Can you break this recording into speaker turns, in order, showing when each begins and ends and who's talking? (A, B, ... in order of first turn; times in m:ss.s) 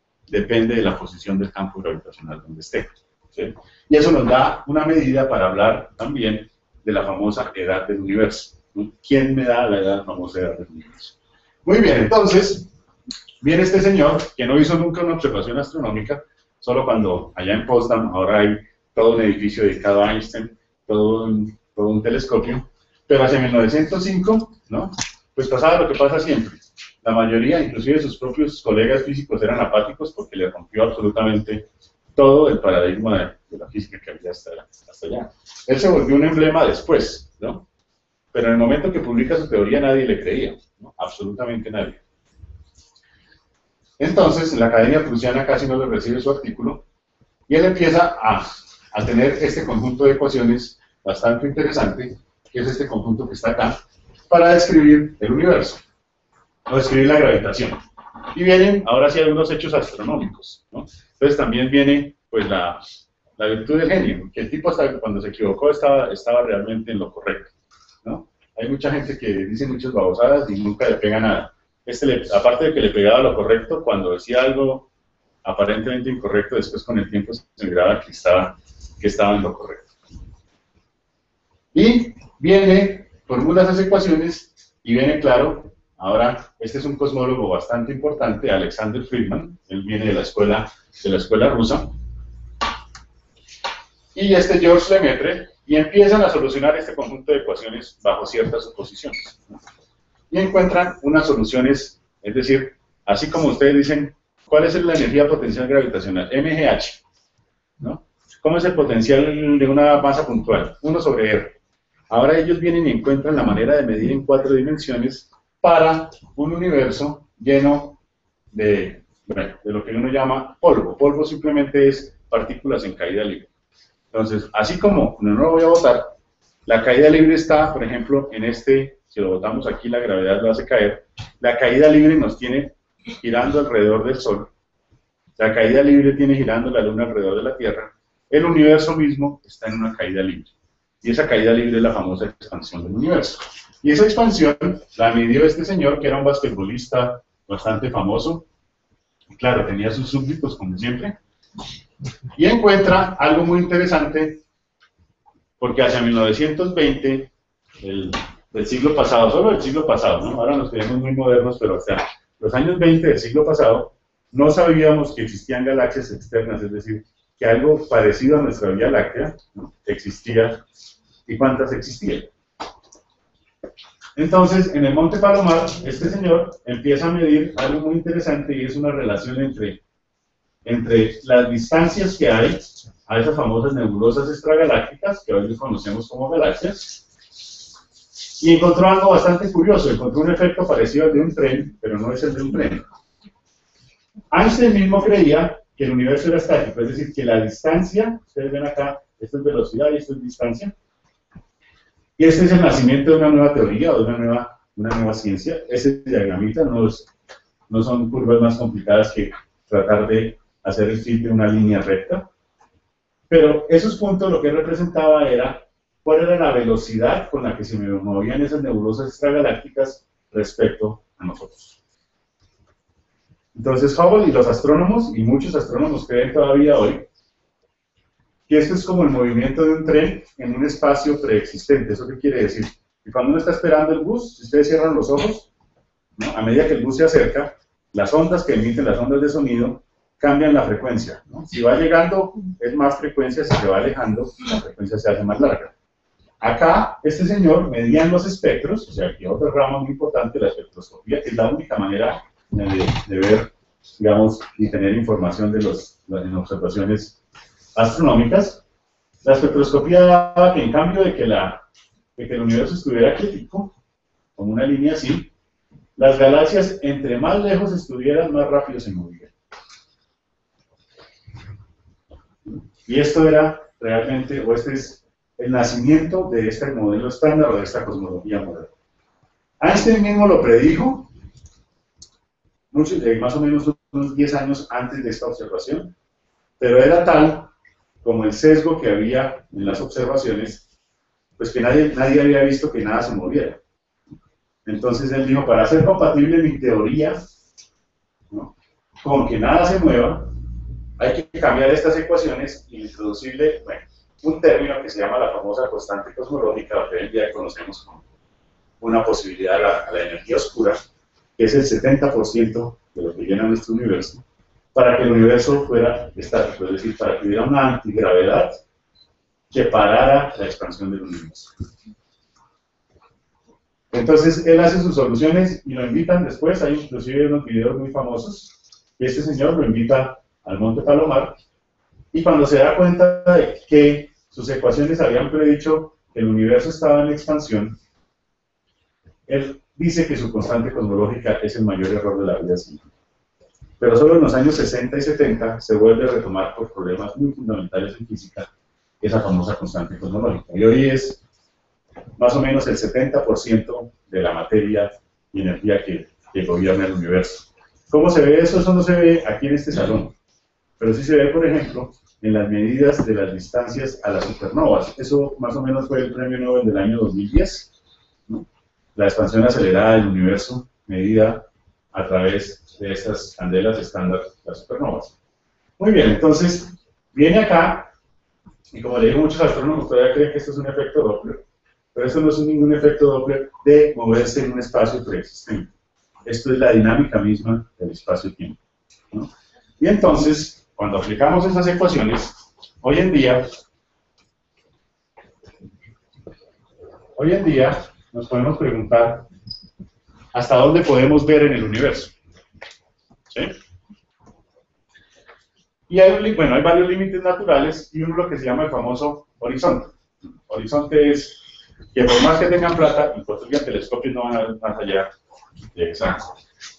0:00.3-0:12.7 A
0:13.4-0:37.6 A
0:38.3-0:42.0 A
0:44.0-0:46.8 A
0:47.5-0:55.8 A
0:56.7-0:57.8 A
0:58.3-1:02.8 A
1:03.4-1:07.5 A
1:08.0-1:14.9 A
1:15.4-1:19.9 A
1:21.7-1:32.0 A
1:34.1-1:39.6 A
1:40.3-1:47.0 A
1:47.8-1:51.6 A
1:52.1-1:58.0 A
1:58.5-2:03.5 A
2:04.1-2:06.1 A
2:06.6-2:14.5 A
2:15.4-2:20.5 A
2:21.0-2:28.4 A
2:29.3-2:31.2 A
2:32.4-2:34.4 A
2:35.6-2:50.6 A
2:51.2-2:52.3 A
2:54.2-2:59.8 A
3:00.6-3:07.0 A
3:08.4-3:12.8 A
3:14.3-3:20.7 A
3:22.2-3:27.1 A
3:27.7-3:32.3 A
3:33.3-3:41.8 A
3:43.5-3:47.1 A
3:48.5-3:55.5 A
3:56.2-4:05.7 A
4:06.4-4:17.2 A
4:17.8-4:18.6 A
4:19.2-4:21.6 A
4:22.2-4:23.7 A
4:24.4-4:25.3 A
4:26.0-4:29.3 A
4:32.5-4:38.7 A
4:39.6-4:41.1 A
4:42.7-4:45.9 A
4:46.6-4:47.5 A
4:48.0-4:50.6 A
4:51.4-4:53.6 A
4:54.6-4:57.3 A
4:58.3-5:00.3 A
5:01.0-5:08.0 A
5:08.8-5:10.8 A
5:11.4-5:14.2 A
5:14.7-5:18.6 A
5:19.5-5:21.5 A
5:23.9-5:31.4 A
5:32.1-5:37.8 A
5:39.3-5:42.9 A
5:43.8-5:48.5 A
5:49.0-5:51.2 A
5:52.2-6:00.1 A
6:00.8-6:07.7 A
6:08.3-6:15.1 A
6:15.8-6:17.9 A
6:18.7-6:21.4 A
6:21.9-6:25.7 A
6:26.2-6:28.6 A
6:29.8-6:33.6 A
6:37.2-6:39.3 A
6:40.3-6:42.1 A
6:45.9-6:49.9 A
6:50.5-6:51.4 A
6:51.9-6:55.1 A
6:55.7-6:56.4 A